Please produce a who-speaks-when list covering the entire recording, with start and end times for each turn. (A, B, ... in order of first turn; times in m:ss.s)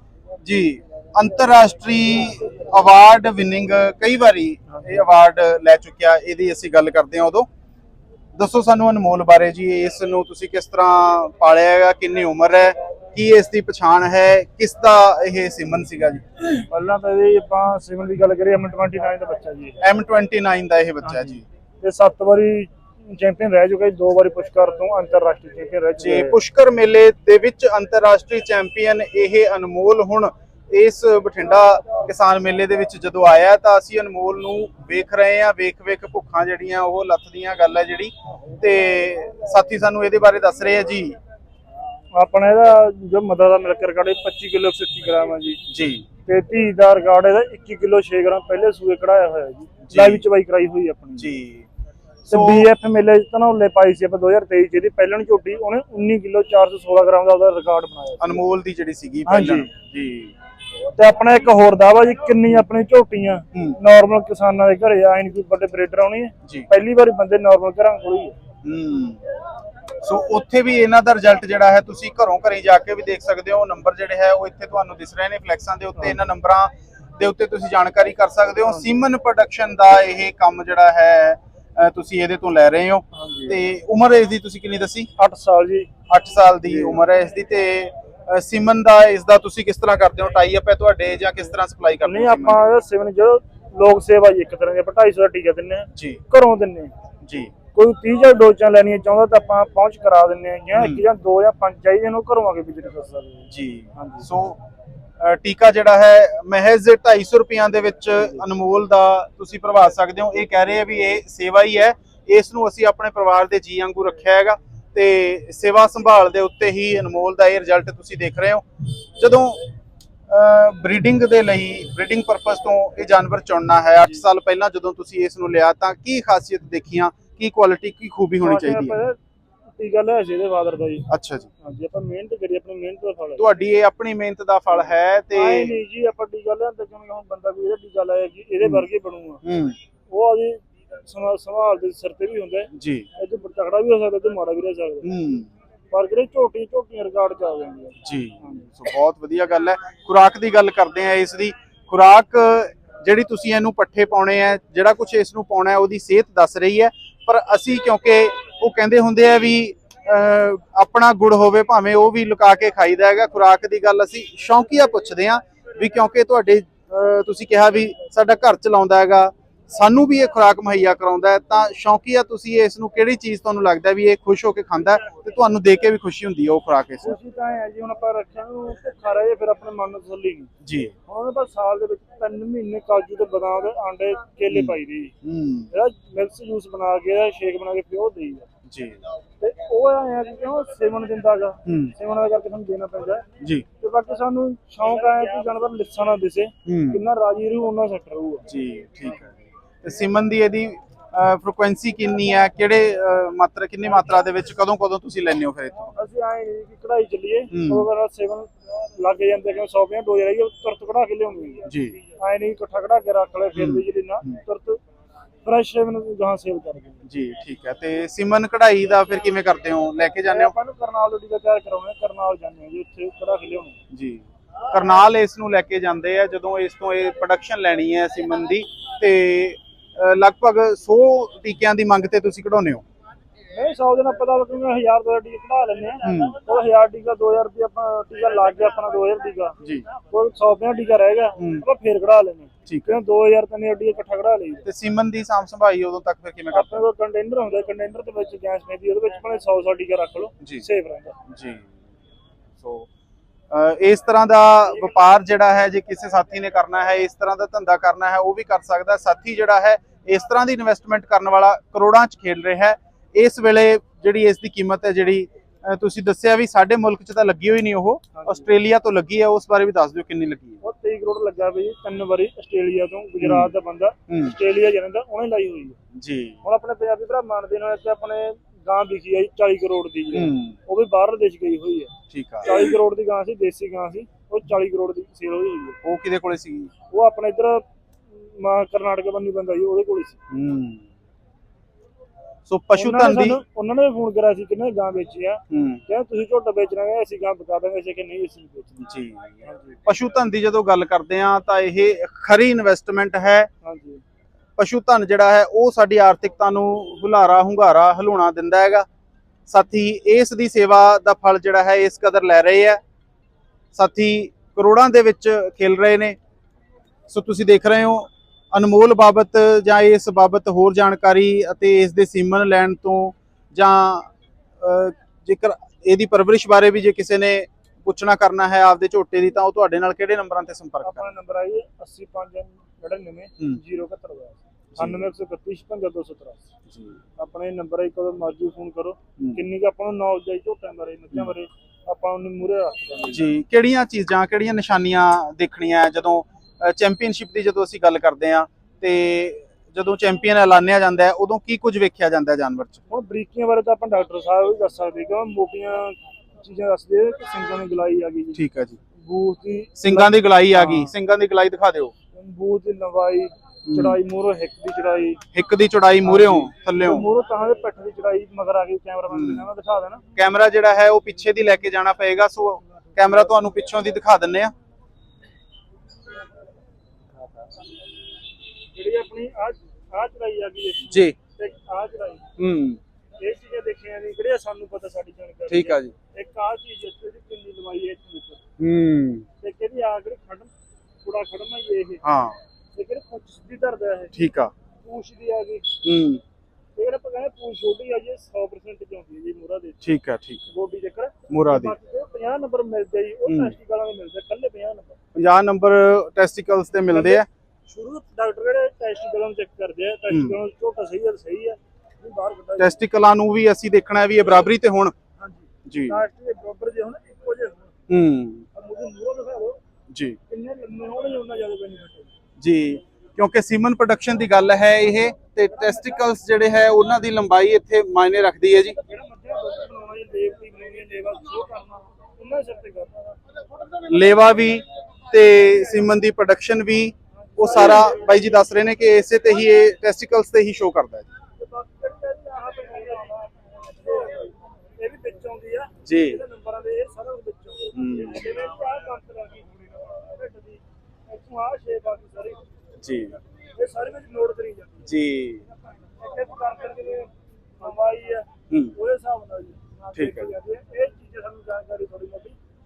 0:00.4-0:07.5 A
0:04.7-0:05.0 B
0:08.3-0:16.4 A
0:16.7-0:19.8 B
0:19.8-0:21.4 A
0:21.0-0:26.4 B
0:26.0-0:41.2 A
0:42.1-0:45.6 B
0:45.7-0:46.0 A
0:46.2-0:51.3 B
0:49.9-0:50.2 A
0:51.2-0:51.7 A
0:52.3-0:58.4 B
0:52.3-0:52.7 A
0:58.2-1:00.3 A
0:59.2-0:59.7 B
1:01.0-1:08.3 B
1:08.6-1:09.2 A
1:10.0-1:25.1 A
1:16.0-1:16.2 B
1:18.7-1:19.0 B
1:23.1-1:23.6 B
1:25.2-1:25.9 B
1:26.1-1:32.7 A
1:26.6-1:27.0 B
1:32.0-1:36.9 B
1:35.9-1:36.2 A
1:37.2-1:37.5 A
1:37.7-1:44.2 B
1:40.8-1:41.0 A
1:43.5-1:44.6 A
1:45.2-1:59.7 A
2:00.3-2:09.0 A
2:08.4-2:09.2 B
2:09.8-2:11.1 B
2:11.1-2:11.5 A
2:11.6-2:13.5 B
2:13.4-2:15.8 A
2:15.3-2:19.4 B
2:19.4-2:19.8 A
2:20.1-2:25.1 B
2:22.7-2:23.1 A
2:25.0-2:25.5 A
2:25.9-2:28.6 B
2:28.0-2:57.2 A
2:57.0-3:00.5 B
3:00.6-3:00.9 A
3:01.1-3:05.1 B
3:04.5-3:05.7 A
3:05.7-3:08.4 B
3:08.7-3:09.0 A
3:09.4-3:13.2 B
3:11.6-3:11.9 A
3:13.4-3:13.6 A
3:13.8-3:18.4 B
3:16.6-3:17.0 A
3:18.5-3:25.9 A
3:25.9-3:34.8 B
3:27.5-3:27.9 A
3:31.6-3:32.0 A
3:33.5-3:34.4 A
3:35.4-3:37.0 B
3:37.1-3:40.5 A
3:40.2-3:43.8 B
3:43.9-3:52.8 A
3:53.5-4:04.7 B
3:56.0-3:56.4 A
4:01.4-4:01.6 A
4:02.6-4:03.0 A
4:04.6-4:06.8 A
4:06.5-4:11.2 B
4:11.2-4:11.7 A
4:12.6-4:12.9 A
4:13.5-4:30.6 A
4:28.2-4:28.5 B
4:30.6-4:35.8 B
4:33.2-4:33.5 A
4:34.1-4:34.3 A
4:35.9-4:36.4 A
4:36.4-4:41.9 B
4:40.1-4:40.6 A
4:42.1-4:42.7 A
4:42.4-4:45.8 B
4:45.8-4:46.7 A
4:46.9-4:47.6 B
4:48.1-4:50.2 B
4:50.3-4:50.8 A
4:52.5-4:53.4 A
4:52.7-4:58.8 B
4:55.5-4:55.8 A
4:58.8-5:03.5 A
4:59.4-4:59.8 B
5:03.6-5:04.0 B
5:04.6-5:08.8 A
5:09.5-5:12.8 A
5:13.7-5:16.2 A
5:17.1-5:31.1 A
5:30.8-5:36.4 B
5:34.7-5:35.0 A
5:36.7-5:37.0 A
5:37.2-5:43.3 B
5:43.1-5:52.8 A
5:52.9-5:58.4 B
5:58.3-5:58.8 A
5:59.0-6:00.9 B
5:59.8-6:01.9 A
6:02.1-6:05.2 B
6:03.6-6:04.0 A
6:05.3-6:07.1 A
6:06.0-6:10.0 B
6:09.1-6:09.4 A
6:10.1-6:14.5 A
6:18.7-6:22.3 B
6:20.9-6:21.2 A
6:22.4-6:22.8 A
6:23.2-6:28.4 B
6:25.5-6:25.9 A
6:28.6-6:29.2 A
6:29.4-6:30.5 B
6:31.0-6:32.0 B
6:32.0-6:32.4 A
6:32.7-6:34.1 B
6:34.1-6:34.5 A
6:34.8-6:35.7 B
6:35.8-6:36.2 A
6:36.8-6:39.8 B
6:39.8-6:40.5 A
6:40.5-6:45.0 B
6:41.3-6:41.7 A
6:43.2-6:43.5 A
6:45.1-6:47.2 A
6:46.9-6:52.8 B
6:50.1-6:50.3 A
6:52.6-6:54.9 A
6:55.2-6:57.8 B
6:55.7-6:56.0 A
6:57.9-6:58.4 A
6:58.5-6:59.6 B
6:59.9-7:00.2 A
7:00.3-7:02.1 B
7:02.4-7:08.8 A
7:05.5-7:06.0 B
7:08.7-7:13.2 B
7:13.9-7:21.1 A
7:17.2-7:18.4 B
7:21.4-7:32.4 B
7:25.8-7:26.2 A
7:27.7-7:28.2 A
7:32.8-7:33.2 A
7:33.6-7:34.9 B
7:34.8-7:35.4 A
7:36.0-7:42.4 B
7:38.5-7:38.7 A
7:39.9-7:40.3 A